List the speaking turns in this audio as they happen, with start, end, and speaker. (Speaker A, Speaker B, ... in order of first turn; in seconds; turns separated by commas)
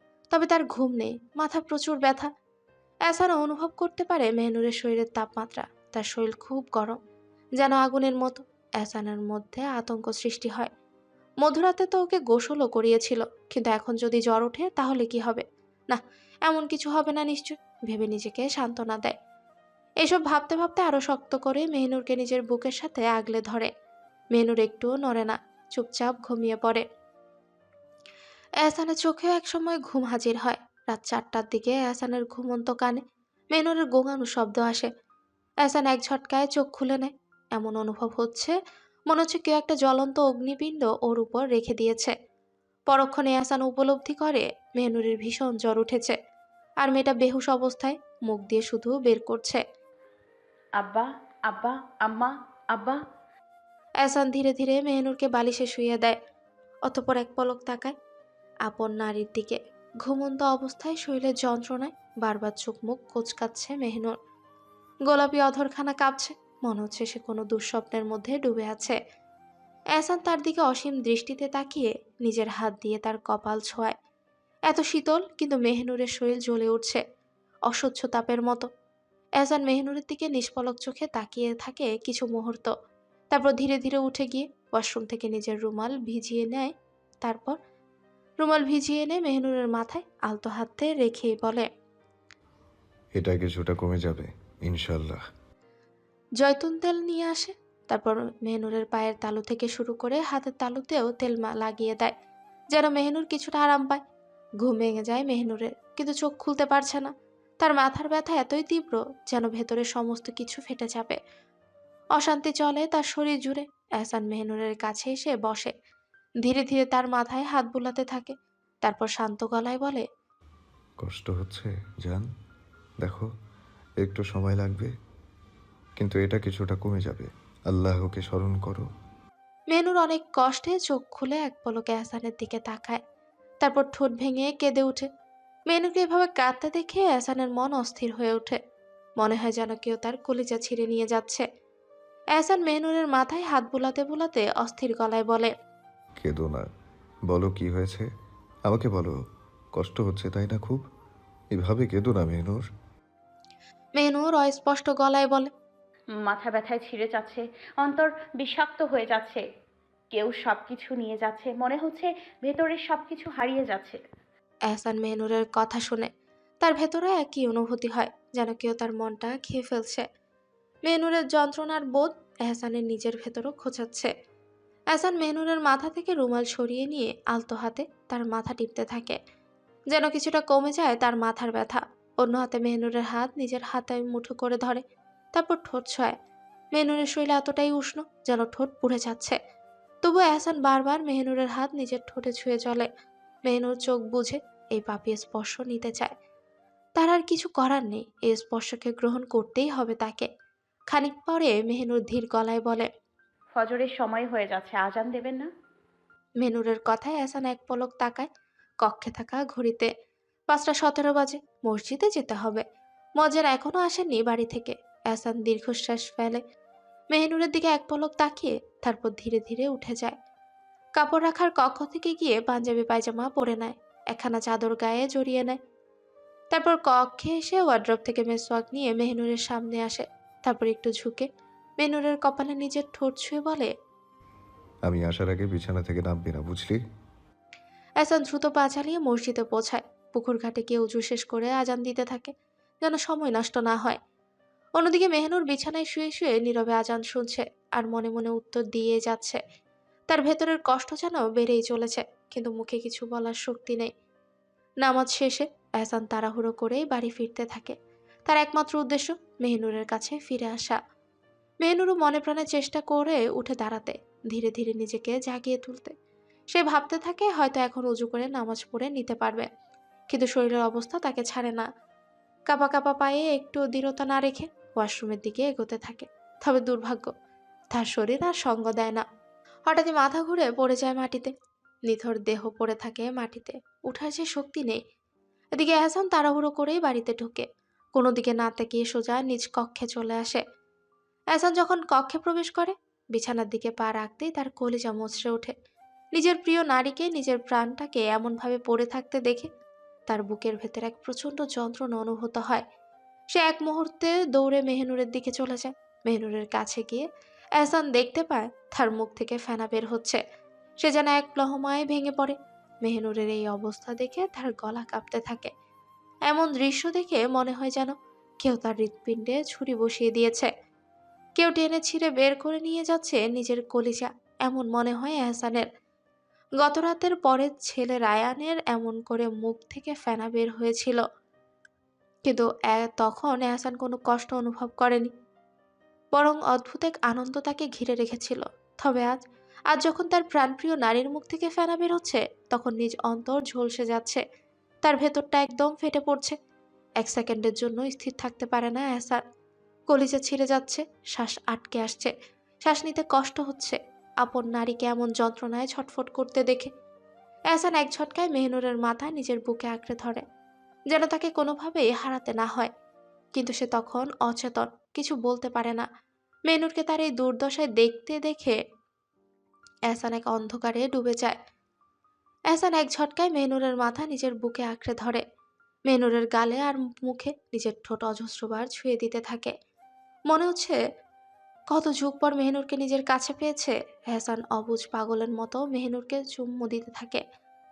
Speaker A: 0.3-2.3, Speaker A: 3.1-7.0, Speaker A: 7.6-10.7, Speaker A: 11.4-19.1, Speaker A: 20.0-23.7, Speaker A: 24.3-26.8, Speaker A: 28.6-33.0, Speaker A: 33.5-34.9, Speaker A: 35.6-38.5, Speaker A: 39.1-42.1, Speaker A: 42.9-46.1, Speaker A: 46.8-49.6, Speaker B: 50.8-53.0, Speaker A: 54.0-56.2, Speaker A: 56.9-57.9, Speaker A: 58.6-64.1, Speaker A: 65.1-69.0, Speaker A: 70.0-73.9, Speaker A: 74.7-77.0, Speaker A: 77.7-78.7, Speaker A: 79.4-82.7, Speaker A: 83.3-87.6, Speaker A: 88.4-91.7, Speaker C: 93.2-95.2, Speaker A: 96.4-102.1, Speaker A: 102.7-104.0, Speaker A: 104.6-111.2, Speaker A: 112.2-115.7, Speaker A: 116.4-120.0, Speaker C: 121.0-122.2, Speaker C: 123.0-123.3, Speaker C: 124.0-124.9, Speaker C: 126.0-128.8, Speaker A: 129.7-133.0, Speaker A: 133.6-135.1, Speaker A: 135.7-138.6, Speaker A: 139.2-141.4, Speaker A: 142.4-145.5, Speaker C: 146.2-146.7, Speaker C: 147.3-148.1, Speaker C: 148.7-149.2, Speaker C: 149.8-150.8, Speaker C: 151.5-152.7, Speaker A: 154.0-155.5, Speaker B: 156.2-159.4, Speaker B: 160.1-164.0, Speaker A: 164.7-166.1, Speaker A: 166.6-170.0, Speaker A: 170.9-174.1, Speaker A: 174.9-179.2, Speaker A: 179.9-184.8, Speaker A: 185.3-186.1, Speaker A: 186.8-189.4, Speaker A: 190.0-192.9, Speaker A: 193.5-196.1, Speaker A: 197.0-200.3, Speaker A: 200.9-202.9, Speaker B: 203.5-205.4, Speaker A: 206.4-208.3, Speaker A: 208.8-209.9, Speaker A: 210.5-212.6, Speaker A: 213.2-216.4, Speaker A: 217.1-220.1, Speaker A: 221.0-225.6, Speaker A: 226.5-231.3, Speaker A: 231.8-233.7, Speaker C: 234.8-236.8, Speaker A: 238.0-242.3, Speaker A: 242.8-244.0, Speaker A: 244.8-249.4, Speaker A: 250.1-253.9, Speaker A: 254.8-257.8, Speaker A: 258.3-260.8, Speaker A: 261.6-265.9, Speaker A: 266.5-269.5, Speaker A: 270.1-271.7, Speaker A: 272.5-277.1, Speaker A: 277.7-279.0, Speaker A: 279.7-281.3, Speaker A: 281.9-284.8, Speaker A: 285.6-287.4, Speaker A: 287.9-290.4, Speaker A: 291.3-295.5, Speaker A: 296.1-299.5, Speaker A: 300.1-302.6, Speaker A: 303.3-307.1, Speaker A: 307.6-310.2, Speaker A: 310.8-315.5, Speaker A: 316.3-320.5, Speaker A: 321.4-325.6, Speaker A: 326.6-331.0, Speaker A: 332.2-335.1, Speaker A: 336.1-344.2, Speaker A: 344.8-346.4, Speaker A: 347.0-349.2, Speaker A: 349.9-352.1, Speaker A: 352.6-356.7, Speaker A: 357.5-360.2, Speaker A: 360.9-362.7, Speaker A: 363.4-365.9, Speaker A: 366.5-368.6, Speaker A: 369.9-371.3, Speaker A: 372.5-375.2, Speaker A: 375.9-379.5, Speaker A: 380.3-380.8, Speaker A: 381.7-387.2